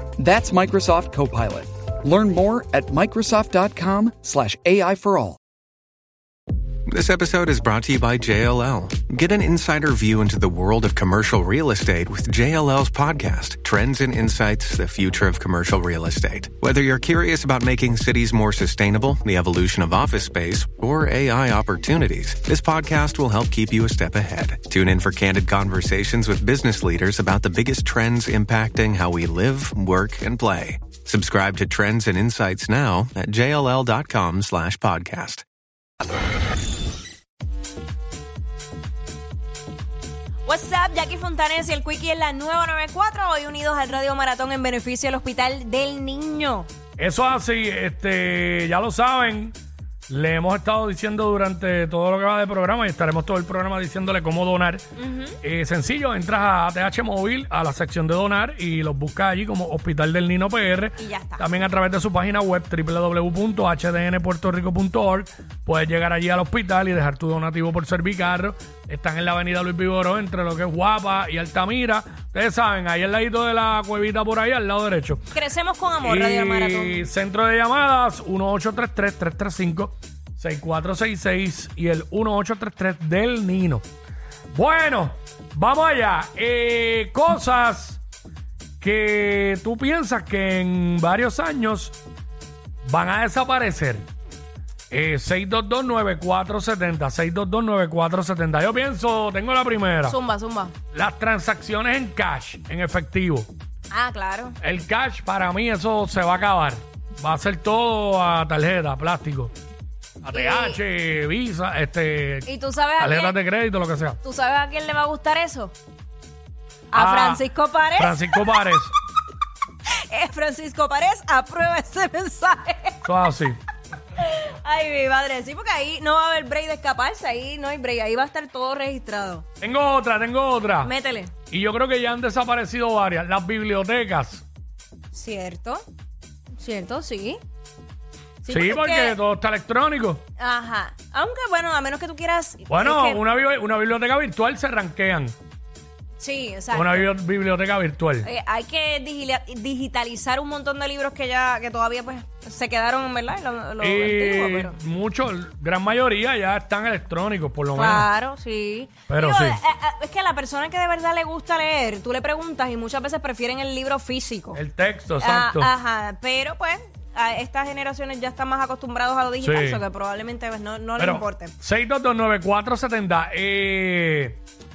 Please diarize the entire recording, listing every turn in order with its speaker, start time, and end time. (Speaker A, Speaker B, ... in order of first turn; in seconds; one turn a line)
Speaker A: 0.2-5.4
Speaker B: 6.9-35.4
Speaker C: 40.5-46.7
Speaker D: 47.0-49.6
Speaker D: 50.1-54.9
Speaker C: 55.0-55.4
Speaker D: 55.4-75.2
Speaker C: 61.0-61.5
Speaker C: 75.3-77.1
Speaker D: 76.0-83.8
Speaker D: 84.5-88.0
Speaker D: 88.8-92.0
Speaker D: 92.8-94.0
Speaker D: 94.9-100.2
Speaker C: 100.0-100.8
Speaker D: 100.9-103.5
Speaker C: 103.9-104.6
Speaker D: 104.6-109.5
Speaker D: 110.2-114.2
Speaker C: 110.3-110.8
Speaker C: 112.5-113.4
Speaker C: 114.2-115.7
Speaker C: 116.9-118.6
Speaker D: 116.9-117.4
Speaker D: 118.0-118.9
Speaker C: 120.1-123.0
Speaker D: 123.0-123.6
Speaker C: 124.2-129.4
Speaker D: 129.6-130.9
Speaker C: 130.8-131.3
Speaker D: 131.5-134.4
Speaker C: 135.1-135.8
Speaker C: 136.6-137.4
Speaker C: 138.4-139.2
Speaker D: 138.5-140.2
Speaker C: 140.4-143.2
Speaker D: 142.7-145.3
Speaker C: 146.2-147.1
Speaker D: 146.7-148.3
Speaker C: 148.2-154.8
Speaker D: 153.8-158.1
Speaker C: 157.7-164.6
Speaker D: 159.1-159.6
Speaker D: 164.5-165.7
Speaker C: 165.2-171.6
Speaker D: 169.4-169.8
Speaker D: 171.0-174.4